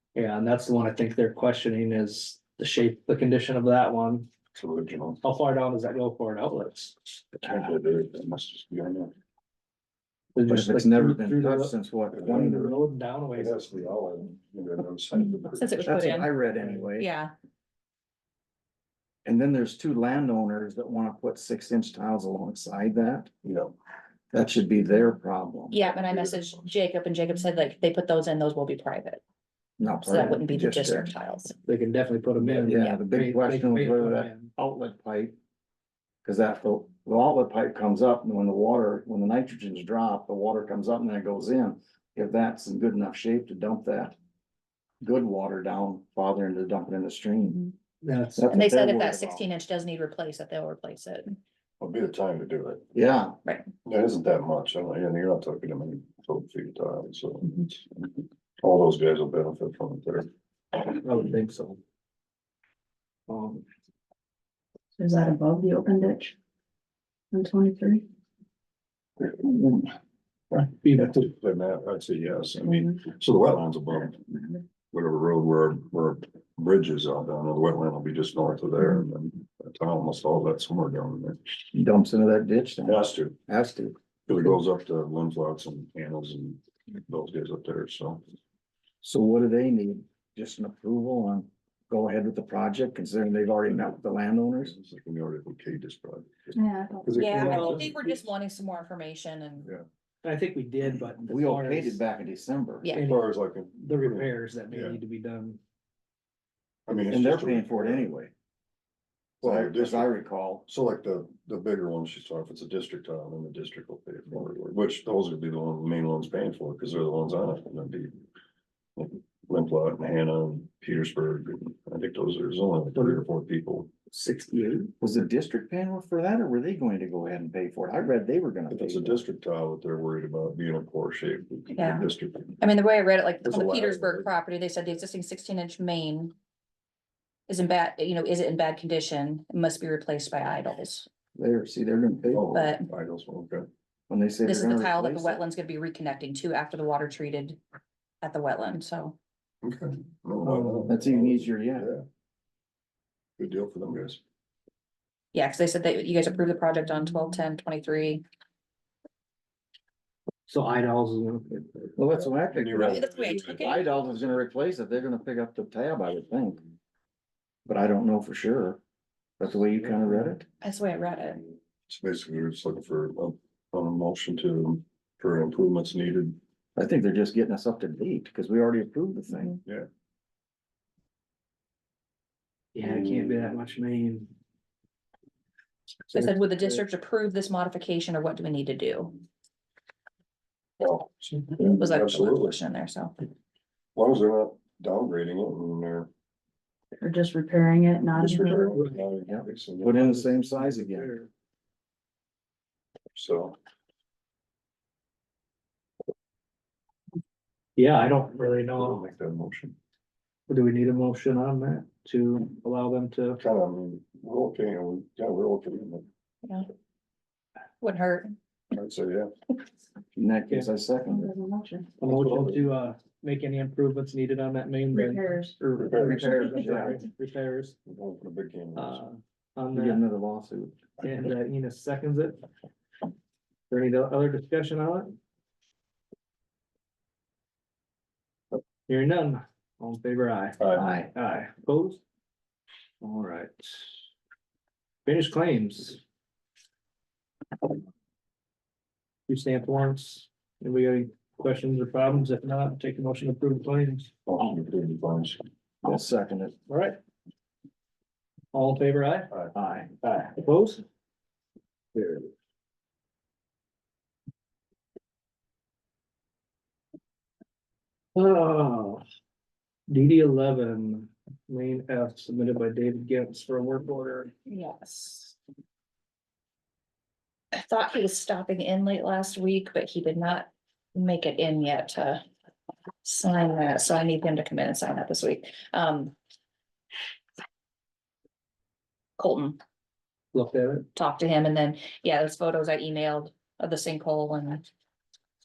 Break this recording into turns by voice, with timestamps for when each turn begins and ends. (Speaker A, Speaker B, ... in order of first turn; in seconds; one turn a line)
Speaker A: 0.1-4.3
Speaker B: 4.5-5.2
Speaker A: 5.2-7.0
Speaker B: 7.4-9.1
Speaker A: 10.3-11.7
Speaker C: 10.4-12.8
Speaker B: 12.1-12.6
Speaker A: 12.3-13.9
Speaker B: 13.3-15.7
Speaker D: 15.5-16.3
Speaker C: 15.8-17.1
Speaker D: 17.0-17.3
Speaker C: 19.2-23.3
Speaker B: 23.4-23.8
Speaker C: 24.3-25.8
Speaker D: 25.7-29.2
Speaker B: 25.8-26.7
Speaker C: 29.8-31.1
Speaker D: 30.1-31.6
Speaker A: 30.1-30.4
Speaker A: 31.6-34.5
Speaker C: 32.4-35.4
Speaker D: 32.7-33.0
Speaker C: 36.2-44.2
Speaker C: 45.0-47.6
Speaker A: 48.0-48.5
Speaker C: 48.4-49.5
Speaker D: 48.5-51.4
Speaker B: 51.8-52.9
Speaker C: 52.9-53.4
Speaker B: 53.9-58.1
Speaker B: 58.6-60.3
Speaker A: 61.0-61.8
Speaker A: 63.3-63.6
Speaker E: 65.0-66.3
Speaker E: 67.3-68.0
Speaker B: 70.5-74.3
Speaker A: 70.7-71.3
Speaker E: 72.6-73.0
Speaker B: 74.9-81.4
Speaker C: 81.7-84.0
Speaker B: 82.8-83.4
Speaker B: 84.3-88.2
Speaker C: 89.0-94.8
Speaker B: 94.6-98.3
Speaker E: 96.5-97.5
Speaker D: 97.2-99.7
Speaker A: 97.4-97.9
Speaker A: 100.2-102.0
Speaker C: 101.0-103.0
Speaker A: 102.9-105.6
Speaker B: 103.0-105.0
Speaker B: 106.9-108.1
Speaker C: 106.9-108.3
Speaker B: 109.4-118.2
Speaker C: 109.4-110.7
Speaker B: 119.0-123.9
Speaker A: 124.1-124.9
Speaker C: 125.0-129.2
Speaker B: 128.7-132.6
Speaker D: 131.8-132.1
Speaker D: 132.6-136.3
Speaker B: 133.4-134.3
Speaker D: 137.5-141.1
Speaker C: 141.3-142.5
Speaker B: 142.3-143.7
Speaker D: 142.5-142.9
Speaker C: 144.1-145.4
Speaker D: 144.4-147.6
Speaker D: 148.2-149.2
Speaker B: 149.6-152.1
Speaker A: 150.4-150.9
Speaker C: 150.9-151.9
Speaker B: 153.4-154.2
Speaker D: 155.3-158.2
Speaker A: 160.5-161.7
Speaker C: 161.9-166.6
Speaker B: 162.1-164.4
Speaker D: 162.8-163.9
Speaker C: 167.7-168.8
Speaker C: 169.4-170.4
Speaker A: 169.8-170.4
Speaker D: 170.6-171.4
Speaker B: 171.9-176.4
Speaker C: 176.8-179.6
Speaker A: 182.7-184.3
Speaker A: 186.1-186.7
Speaker D: 186.1-189.2
Speaker B: 190.8-192.6
Speaker D: 191.6-193.1
Speaker B: 193.9-196.1
Speaker E: 197.0-198.8
Speaker B: 198.2-200.1
Speaker C: 199.2-201.1
Speaker A: 199.9-201.3
Speaker B: 203.1-203.6
Speaker A: 207.8-209.0
Speaker B: 208.8-209.8
Speaker A: 210.5-213.4
Speaker B: 213.4-216.1
Speaker D: 217.8-218.3
Speaker B: 218.7-219.3
Speaker C: 220.2-221.3
Speaker E: 221.1-222.0
Speaker A: 222.0-225.4
Speaker B: 222.0-222.6
Speaker E: 224.9-225.6
Speaker C: 225.6-227.0
Speaker B: 225.8-226.9
Speaker A: 225.9-227.8
Speaker B: 227.9-229.0
Speaker A: 228.8-230.0
Speaker C: 229.7-230.9
Speaker A: 231.0-232.4
Speaker A: 233.7-235.2
Speaker A: 238.9-242.0
Speaker B: 240.6-240.8
Speaker C: 240.8-241.5
Speaker A: 243.0-243.9
Speaker A: 245.1-246.0
Speaker A: 249.3-254.2
Speaker B: 254.3-255.4
Speaker C: 255.8-256.6
Speaker A: 256.7-257.0
Speaker A: 258.5-259.4
Speaker C: 259.5-260.0
Speaker A: 260.0-260.8
Speaker A: 261.9-262.3
Speaker A: 268.1-269.0
Speaker A: 269.9-274.3
Speaker D: 274.5-275.4
Speaker D: 277.5-282.2
Speaker D: 283.0-286.1
Speaker D: 289.2-289.6
Speaker A: 290.3-290.9
Speaker D: 290.9-294.6